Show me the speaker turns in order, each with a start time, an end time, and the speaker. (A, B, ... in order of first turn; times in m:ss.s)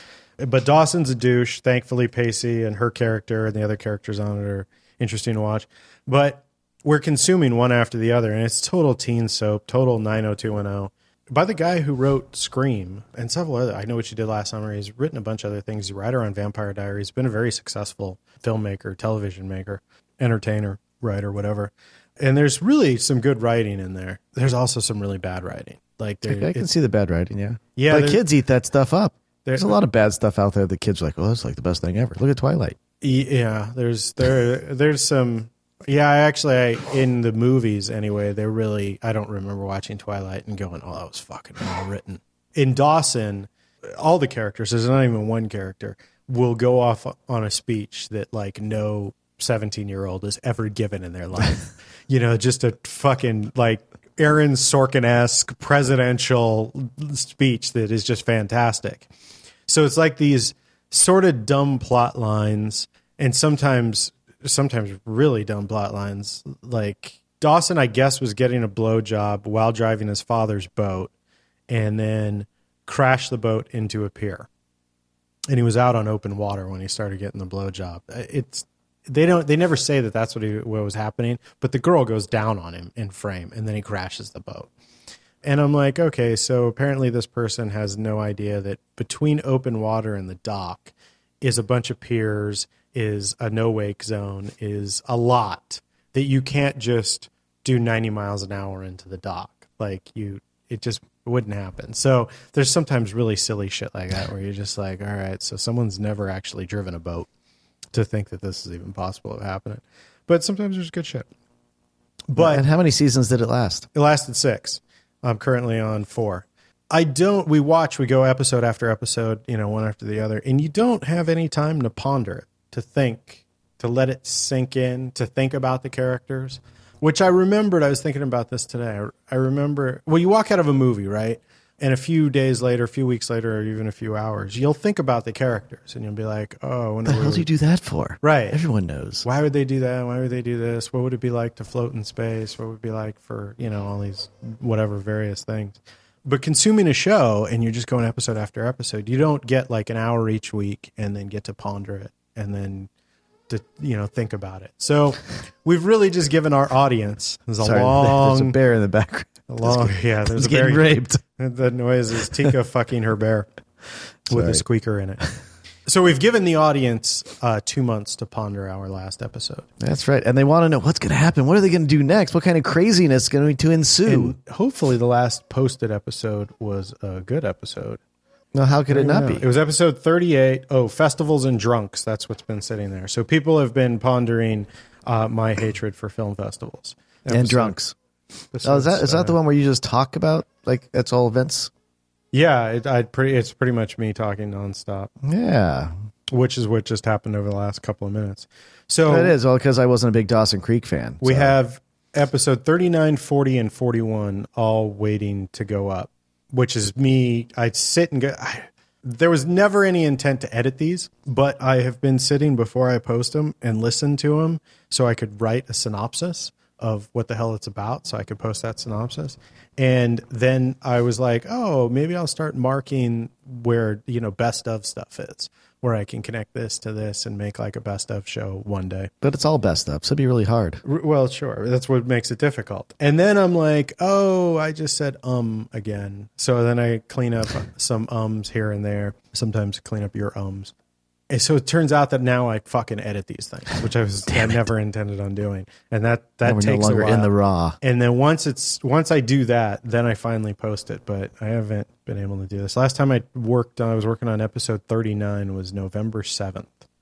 0:00.4-0:26.7 A
0:26.3-0:32.8 B
0:27.8-0:28.2 A
0:29.4-0:29.8 A
0:33.0-0:59.1 A
0:59.7-1:11.1 A
1:11.7-1:14.5 A
1:15.5-1:24.7 A
1:25.4-1:47.3 A
1:47.9-1:51.3 A
1:52.3-1:52.6 A
1:52.4-1:53.9 B
1:53.9-2:17.5 A
2:17.1-2:19.3 B
2:18.2-2:18.6 A
2:19.2-2:32.9 A
2:33.5-2:38.6 A
2:37.6-2:41.2 B
2:39.5-2:43.5 A
2:44.3-2:45.3 A
2:44.3-2:44.6 B
2:45.9-2:49.7 A
2:49.8-2:54.4 B
2:54.0-2:58.0 A
2:58.5-2:59.4 B
2:58.9-3:07.8 A
3:07.3-3:07.9 B
3:08.5-3:09.4 A
3:08.6-3:11.7 B
3:12.3-3:15.1 A
3:15.2-3:15.9 B
3:16.3-3:19.4 A
3:19.1-3:21.5 B
3:21.2-3:49.1 A
3:49.2-3:50.8 B
3:50.8-4:00.7 A
4:01.3-4:16.8 A
4:06.4-4:07.8 B